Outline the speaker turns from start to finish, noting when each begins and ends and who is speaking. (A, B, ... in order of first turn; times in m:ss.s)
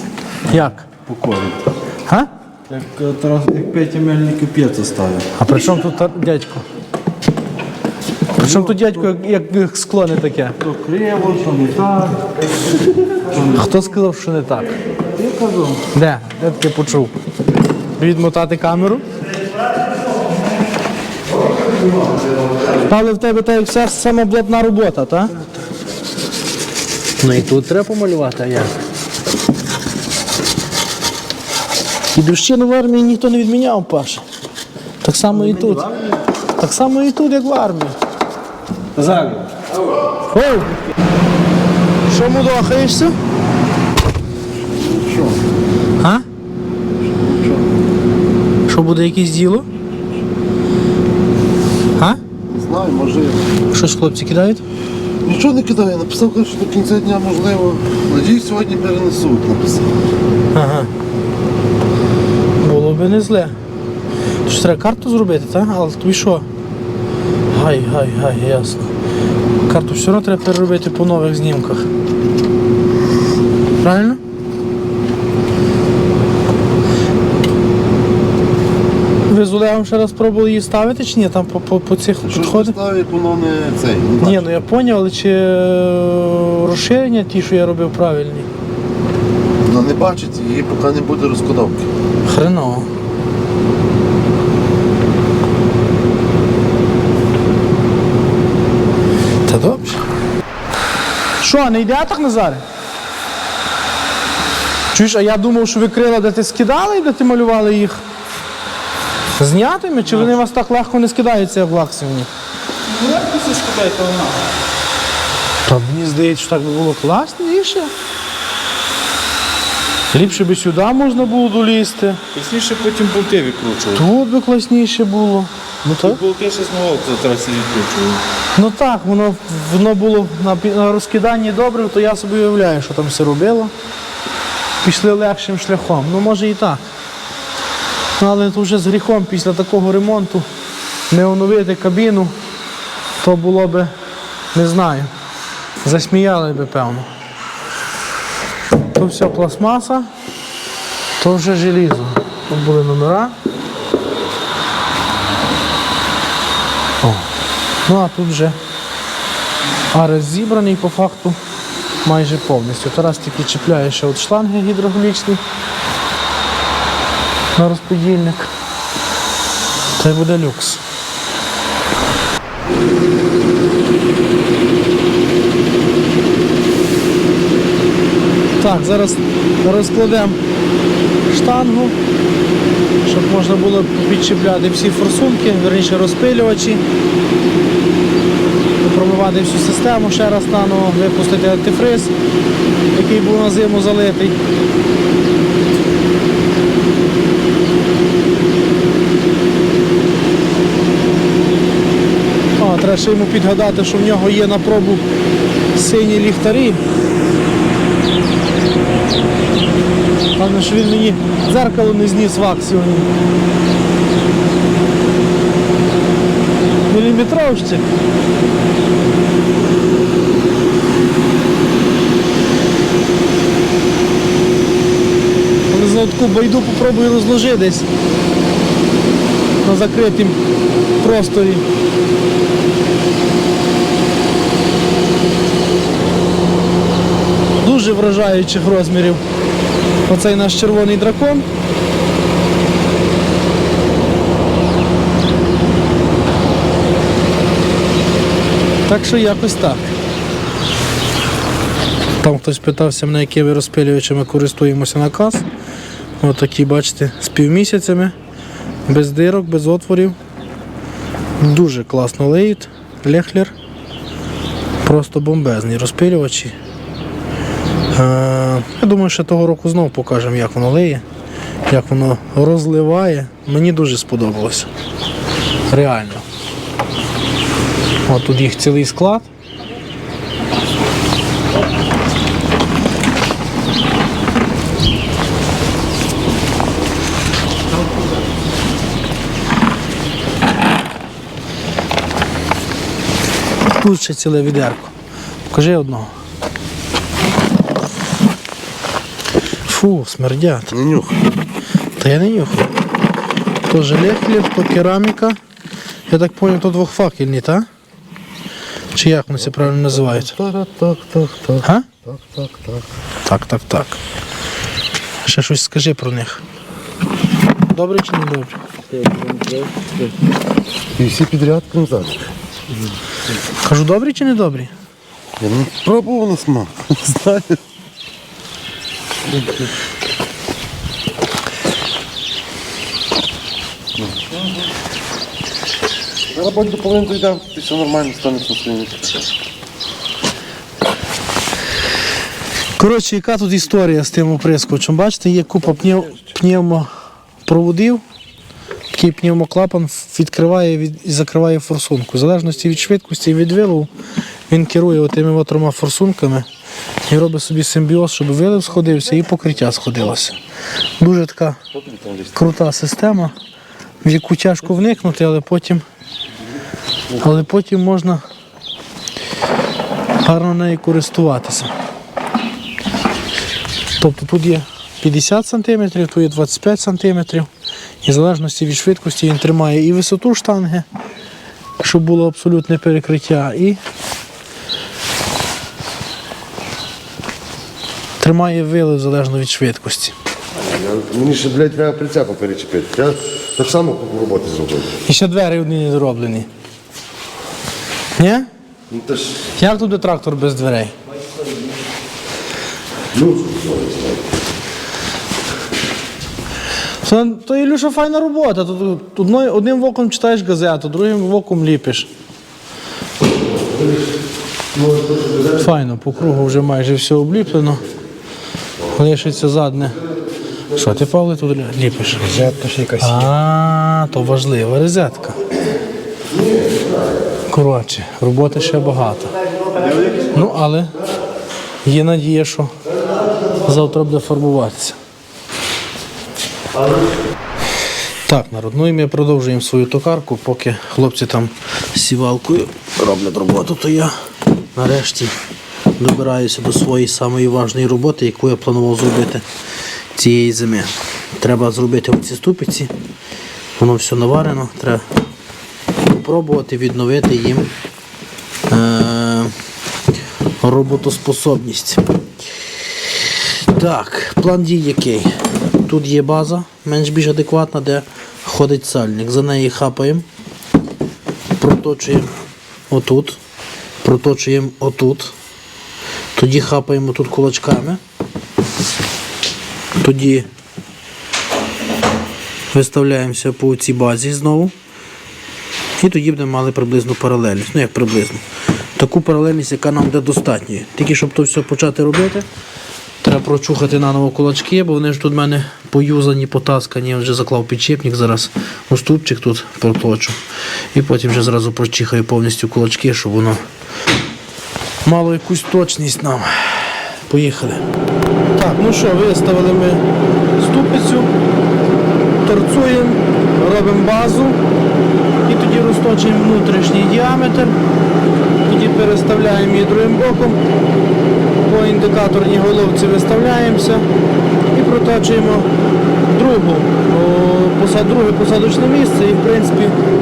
0:00.5-0:00.9 A
0:01.0-0:01.6 B
0:02.7-0:05.3 B
0:05.4-0:06.6 A
0:08.3-0:10.6 A
0:08.4-0:09.0 B
0:10.6-0:12.3 B
0:13.2-0:13.5 B
0:13.4-0:14.8 A
0:15.2-0:15.7 B
0:15.9-0:17.1 A
0:18.0-0:19.0 A
0:22.8-0:25.4 A
0:27.2-0:28.7 A
0:32.1-0:34.2 A
0:35.0-0:36.0 A
0:35.4-0:36.0 B
0:36.6-0:38.0 A
0:38.9-0:39.5 B
0:40.3-0:40.8 A
0:42.1-0:43.2 A
0:44.7-0:45.4 C
0:46.0-0:46.2 A
0:47.1-0:47.6 C
0:48.7-0:49.7 A
0:52.5-0:53.5 C
0:53.7-0:54.6 A
0:55.2-0:59.9 C
1:00.5-1:00.9 A
1:02.6-1:03.5 A
1:04.4-1:06.4 A
1:07.5-1:08.9 A
1:09.7-1:11.9 A
1:13.8-1:14.2 A
1:19.3-1:22.7 A
1:22.2-1:24.5 C
1:24.2-1:28.5 A
1:29.6-1:31.9 C
1:32.2-1:32.9 A
1:39.4-1:40.0 A
1:41.4-1:42.6 A
1:44.9-1:48.0 A
1:49.4-1:52.3 A
1:52.9-1:54.4 B
1:55.6-1:57.9 A
2:00.1-2:02.2 A
2:02.3-2:04.0 B
2:03.9-2:06.2 A
2:06.0-2:08.2 B
2:08.6-2:13.7 A
2:14.8-2:16.8 A
2:18.2-2:20.4 A
2:21.1-2:22.4 A
2:23.2-2:23.9 A
2:24.5-2:25.1 A
2:25.8-2:27.1 A
2:28.9-2:30.1 A
2:31.2-2:33.3 A
2:37.0-2:37.3 A
2:37.8-2:38.6 A
2:39.9-2:41.4 A
2:42.0-2:45.4 A
2:47.6-2:48.5 A
2:50.0-2:50.8 A
2:58.6-3:00.4 A
3:01.3-3:01.9 A
3:03.0-3:06.8 A
3:08.8-3:12.1 A
3:12.9-3:14.4 A
3:22.6-3:25.0 A
3:25.7-3:26.8 A
3:30.4-3:33.2 A
3:36.9-3:37.9 A
3:45.7-3:47.9 A
3:49.6-3:50.4 A
3:51.0-3:51.6 A
3:57.6-3:59.2 A
4:00.1-4:01.5 A
4:08.8-4:09.9 A
4:12.2-4:15.5 A
4:16.2-4:18.1 A
4:18.9-4:20.2 A
4:21.4-4:23.5 A
4:24.8-4:26.5 A
4:27.9-4:31.0 A
4:31.7-4:34.7 A
4:35.7-4:36.2 A
4:38.1-4:39.3 A
4:53.7-4:54.9 A
4:55.5-4:56.1 A
4:59.6-5:00.8 A
5:00.7-5:01.2 C
5:02.0-5:02.7 A
5:03.6-5:05.4 A
5:06.1-5:07.7 A
5:08.9-5:10.3 A
5:10.1-5:12.8 C
5:11.6-5:11.9 A
5:13.2-5:14.0 A
5:15.2-5:16.4 A
5:17.7-5:18.6 A
5:18.9-5:20.1 B
5:21.0-5:22.3 C
5:23.6-5:24.7 A
5:25.4-5:27.6 C
5:34.0-5:34.2 C
5:36.3-5:39.2 C
5:42.8-5:46.9 A
5:47.4-5:48.0 A
5:48.9-5:53.9 A
5:54.5-5:56.4 A
5:57.1-6:00.4 A
6:01.0-6:01.6 A
6:01.9-6:02.3 C
6:02.3-6:03.3 A
6:04.0-6:05.8 A
6:07.2-6:08.2 A
6:10.2-6:11.7 A
6:14.0-6:17.5 A
6:18.0-6:20.8 A
6:21.8-6:23.8 A
6:28.2-6:30.1 A
6:30.6-6:35.0 C
6:35.0-6:36.5 A
6:38.2-6:38.5 A
6:38.9-6:39.4 C
6:39.6-6:40.9 A
6:43.1-6:44.2 C
6:47.0-6:52.1 A
6:55.5-6:57.8 A
6:58.9-7:00.0 A
7:00.7-7:05.4 A
7:02.3-7:03.2 B
7:06.4-7:06.8 C
7:07.5-7:09.6 A
7:10.1-7:10.9 A
7:11.8-7:12.8 A
7:13.4-7:15.0 A
7:18.3-7:24.2 A
7:24.7-7:25.4 A
7:26.0-7:29.4 A
7:30.1-7:32.9 A
7:33.8-7:35.0 A
7:36.0-7:37.7 A
7:38.7-7:39.5 A
7:40.6-7:42.0 A
7:43.6-7:50.2 A
7:51.6-7:52.3 A
7:52.9-7:53.4 A
7:54.0-7:55.3 A
7:56.3-7:58.0 A
8:00.0-8:00.5 A
8:02.7-8:04.7 A
8:06.0-8:08.4 A
8:09.0-8:12.4 A
8:13.2-8:20.4 A
8:20.9-8:23.6 A
8:25.0-8:27.8 A
8:28.5-8:30.0 A
8:30.6-8:31.3 A
8:32.4-8:34.6 A
8:35.4-8:37.8 A
8:38.6-8:40.6 A
8:41.6-8:44.1 A
8:44.7-8:45.7 A
8:46.2-8:50.0 A